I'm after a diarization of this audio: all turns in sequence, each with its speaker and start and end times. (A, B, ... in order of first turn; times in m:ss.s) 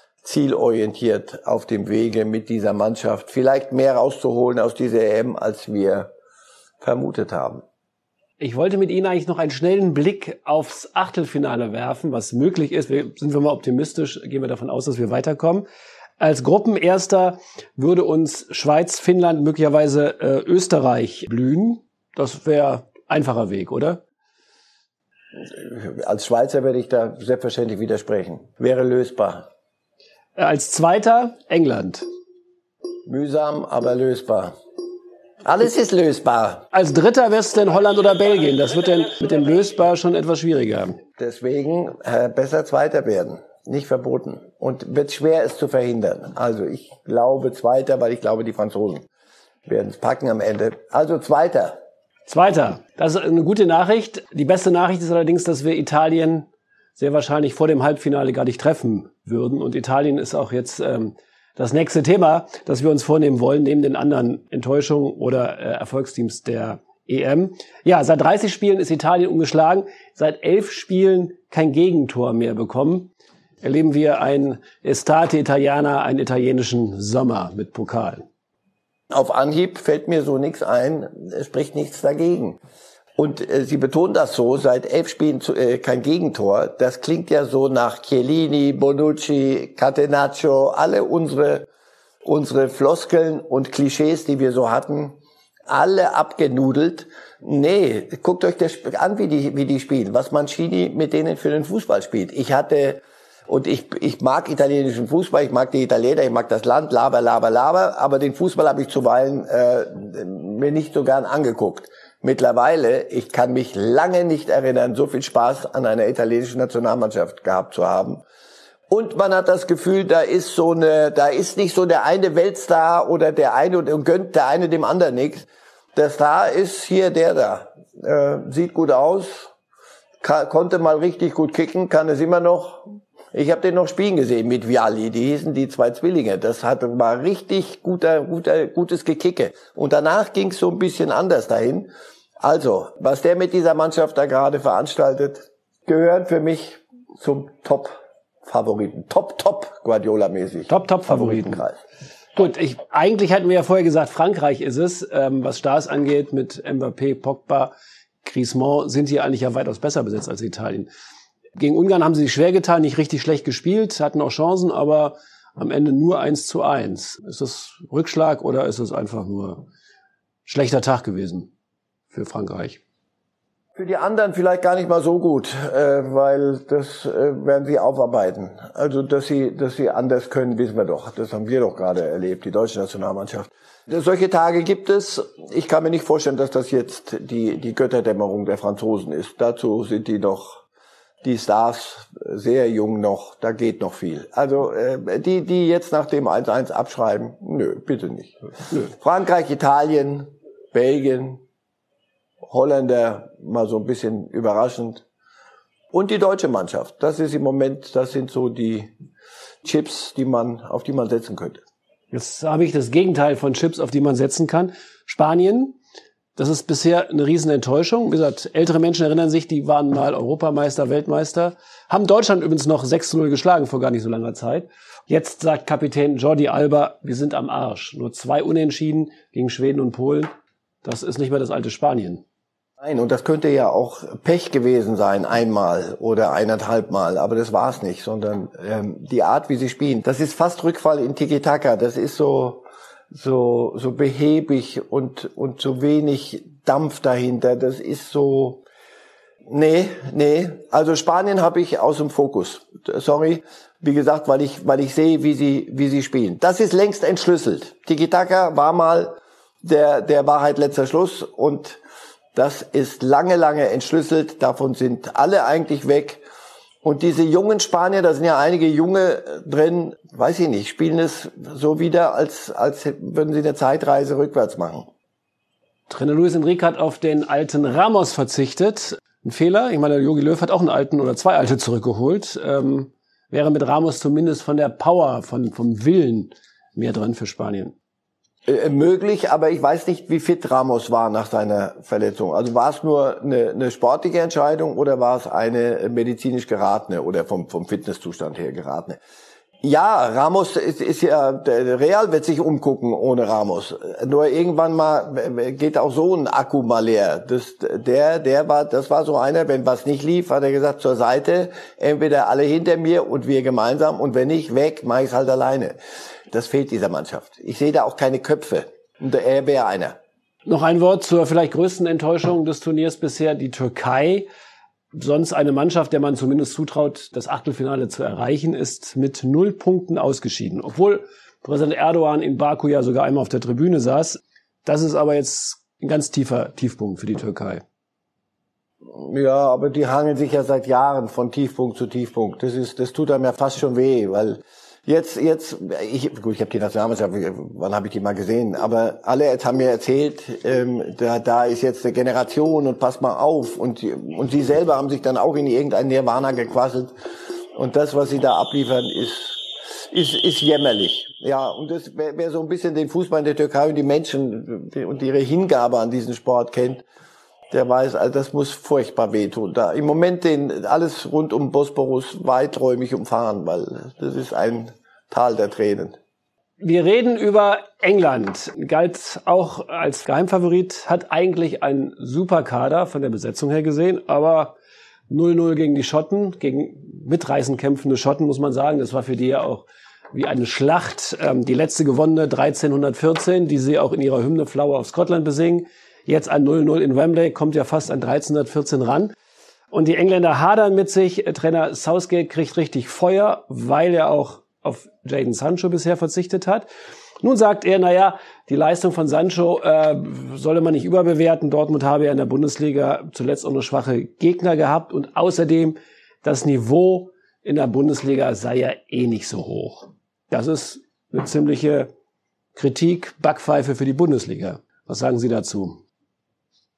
0:00.2-0:06.1 A
0:06.8-0:07.6 A
0:08.4-0:15.6 B
0:16.2-0:24.0 B
0:25.4-0:29.5 A
0:30.4-0:32.1 B
0:33.1-0:34.6 A
0:35.4-0:36.6 A
0:36.7-0:41.0 B
0:41.2-0:49.0 A
0:49.7-0:51.8 A
0:52.3-1:13.1 B
1:13.6-1:18.3 B
1:19.1-1:22.6 A
1:23.2-1:31.7 A
1:32.2-1:35.2 A
1:35.7-1:58.2 A
1:58.9-2:09.5 A
2:10.2-2:31.8 A
2:30.7-2:31.6 B
2:32.4-2:37.7 B
2:38.2-2:40.9 B
2:41.6-2:49.6 B
2:50.5-2:51.5 B
2:52.1-2:52.8 B
2:53.8-3:10.6 A
3:11.2-3:21.4 A
3:22.4-3:25.0 A
3:25.9-3:28.9 A
3:29.6-3:31.6 A
3:32.1-3:35.8 B
3:36.4-3:50.3 B
3:50.8-3:52.2 B
3:52.8-4:08.6 A
4:09.5-4:21.8 A
4:22.3-4:26.2 A
4:26.8-4:34.9 A
4:35.9-4:47.7 B
4:48.5-4:59.0 A
4:59.6-5:15.8 A
5:16.3-5:20.0 A
5:20.5-5:24.3 B
5:24.9-5:37.6 B
5:38.9-5:56.9 A
5:57.6-6:06.8 A
6:07.5-6:16.0 A
6:16.6-6:24.6 B
6:25.1-6:39.1 B
6:39.7-6:46.7 B
6:47.2-7:01.9 B
7:02.6-7:05.8 B